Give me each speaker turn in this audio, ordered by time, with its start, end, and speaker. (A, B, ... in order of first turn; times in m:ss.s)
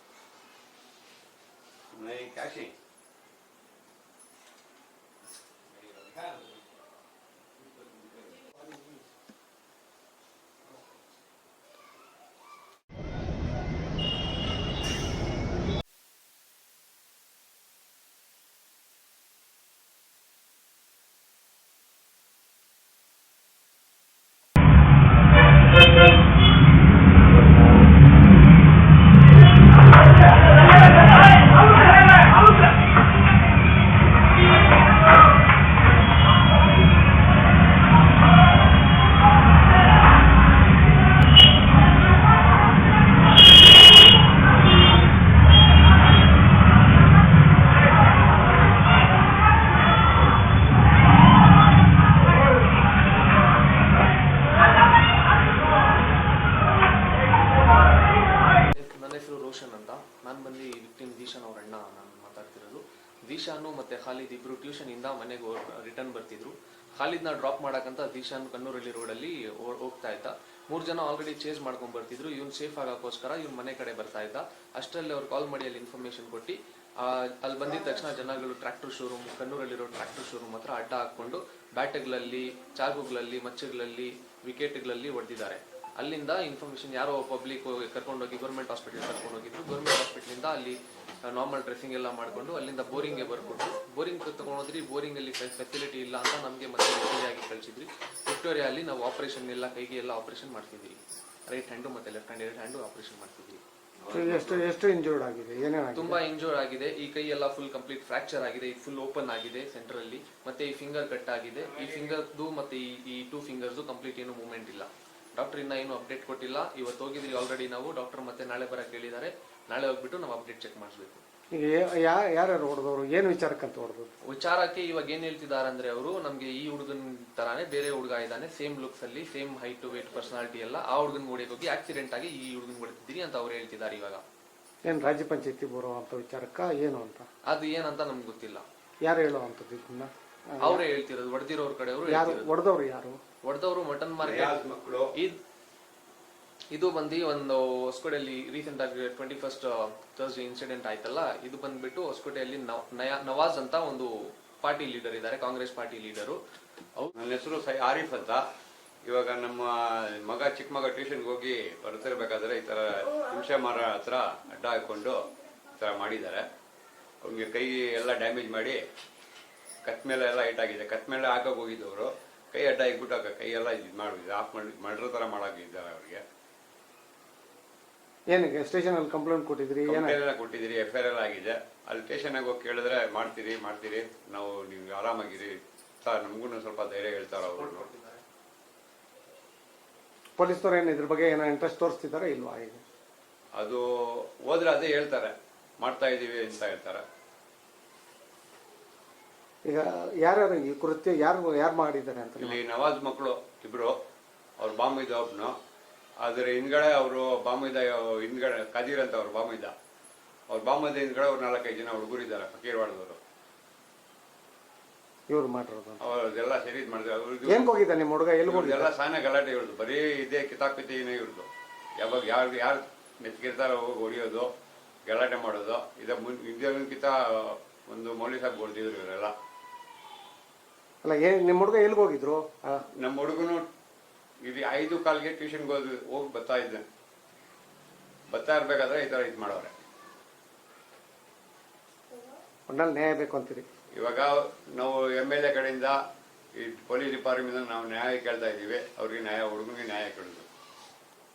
0:01.9-0:02.7 A
0:05.7-0:06.6 A
0:07.6-0:08.5 A
0:58.6-1:43.6 B
1:44.1-1:46.2 C
1:44.1-1:44.5 A
1:45.9-2:01.2 B
2:01.5-2:04.1 C
2:04.2-2:14.2 B
2:14.8-2:17.3 C
2:17.5-2:18.6 B
2:19.0-2:20.8 C
2:20.6-2:22.5 B
2:22.0-2:23.2 C
2:23.4-2:24.6 B
2:24.2-2:25.1 A
2:25.1-2:25.4 B
2:26.7-2:36.4 B
2:37.1-2:38.4 A
2:39.0-2:46.5 A
2:47.2-2:48.8 A
2:49.8-2:56.2 A
2:58.3-3:00.2 C
2:59.8-3:07.8 A
3:07.4-3:08.2 B
3:10.4-3:12.8 C
3:13.6-3:13.8 A
3:14.4-3:17.0 A
3:19.6-3:22.6 C
3:22.4-3:23.9 A
3:24.6-3:25.5 A
3:26.2-3:29.7 A
3:30.5-3:33.2 A
3:35.3-3:36.0 C
3:36.0-3:37.7 A
3:37.4-3:38.9 C
3:38.4-3:44.5 A
3:45.0-3:49.3 A
3:51.0-3:52.8 C
3:53.0-3:53.7 A
3:54.4-3:56.8 A
3:58.3-3:59.7 A
4:02.7-4:03.6 C
4:03.9-4:06.0 A
4:06.6-4:10.4 A